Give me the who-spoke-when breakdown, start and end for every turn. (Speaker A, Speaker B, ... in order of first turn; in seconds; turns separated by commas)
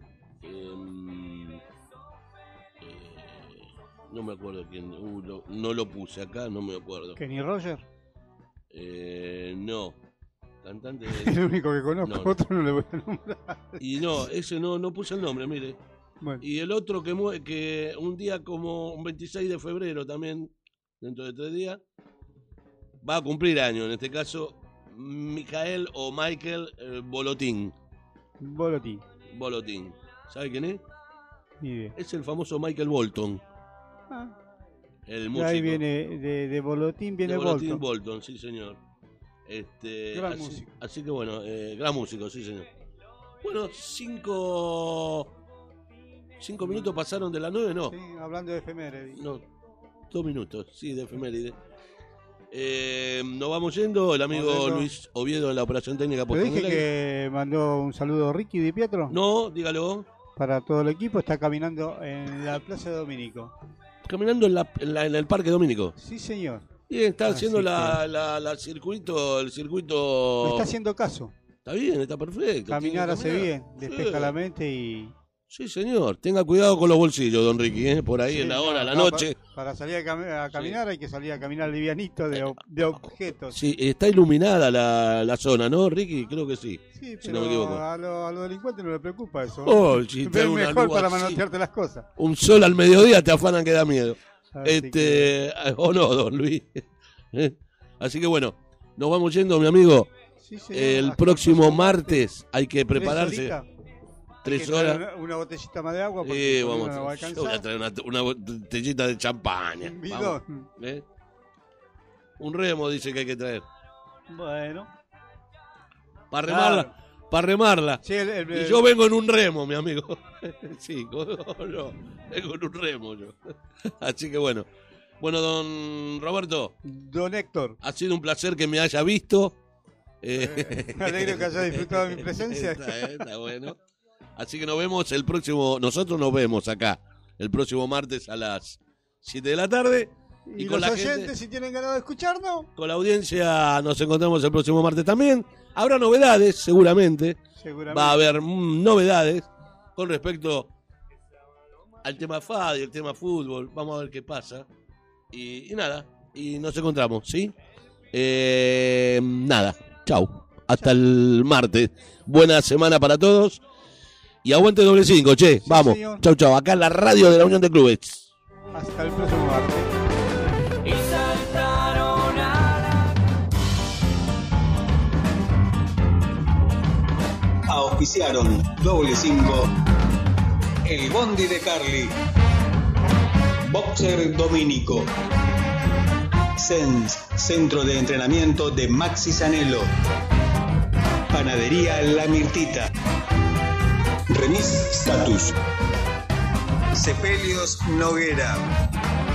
Speaker A: 0.4-1.6, Speaker A: 2.8-7.2, Speaker B: 7.2-7.8, Speaker A: 8.7-10.0, Speaker A: 10.6-11.4, Speaker B: 11.1-13.8, Speaker A: 12.0-12.3, Speaker A: 13.8-15.8, Speaker A: 16.4-21.8, Speaker A: 23.0-27.7, Speaker B: 28.4-29.0, Speaker A: 29.3-30.8, Speaker B: 31.6-31.9, Speaker A: 31.9-33.4, Speaker A: 35.0-35.8, Speaker B: 35.3-37.8, Speaker A: 37.2-38.8, Speaker A: 39.5-42.7, Speaker B: 40.1-40.7, Speaker A: 43.4-45.3, Speaker A: 46.4-48.0, Speaker B: 47.9-49.2, Speaker A: 49.2-49.4, Speaker A: 50.1-51.6, Speaker A: 52.5-56.9, Speaker B: 54.3-54.9, Speaker B: 56.3-59.1, Speaker A: 59.1-60.1, Speaker B: 60.4-63.5, Speaker A: 64.0-65.9, Speaker B: 66.0-66.7, Speaker A: 66.9-70.7, Speaker B: 67.2-68.0, Speaker B: 70.4-71.3, Speaker A: 71.6-74.3, Speaker B: 72.7-75.1, Speaker A: 75.5-79.4, Speaker B: 78.3-83.6, Speaker A: 80.5-80.8, Speaker A: 83.5-87.8, Speaker B: 86.9-92.0, Speaker A: 89.6-91.4, Speaker A: 92.2-100.1, Speaker B: 94.5-95.3, Speaker B: 100.4-102.2, Speaker A: 100.7-103.5, Speaker B: 102.9-103.7, Speaker A: 104.4-105.0, Speaker B: 104.4-107.6, Speaker A: 106.2-111.0, Speaker B: 109.8-110.7, Speaker A: 112.4-113.7, Speaker B: 114.3-114.9, Speaker A: 116.3-118.0, Speaker B: 116.5-116.9, Speaker B: 118.0-118.8, Speaker A: 118.5-124.7, Speaker A: 125.2-126.7, Speaker B: 126.8-127.8, Speaker A: 127.8-129.6, Speaker A: 130.2-133.8, Speaker B: 130.3-133.2, Speaker A: 134.3-141.3, Speaker B: 140.5-142.7, Speaker A: 142.8-150.7, Speaker B: 147.6-148.3, Speaker A: 152.0-154.7, Speaker A: 155.3-157.5, Speaker A: 158.1-163.6, Speaker A: 164.4-168.3, Speaker B: 165.6-166.2, Speaker B: 168.7-169.9, Speaker A: 171.0-172.5, Speaker C: 177.7-179.7, Speaker C: 180.8-182.2, Speaker C: 183.6-185.1, Speaker C: 186.6-189.9, Speaker C: 191.3-192.9, Speaker C: 194.3-195.6, Speaker C: 196.9-198.7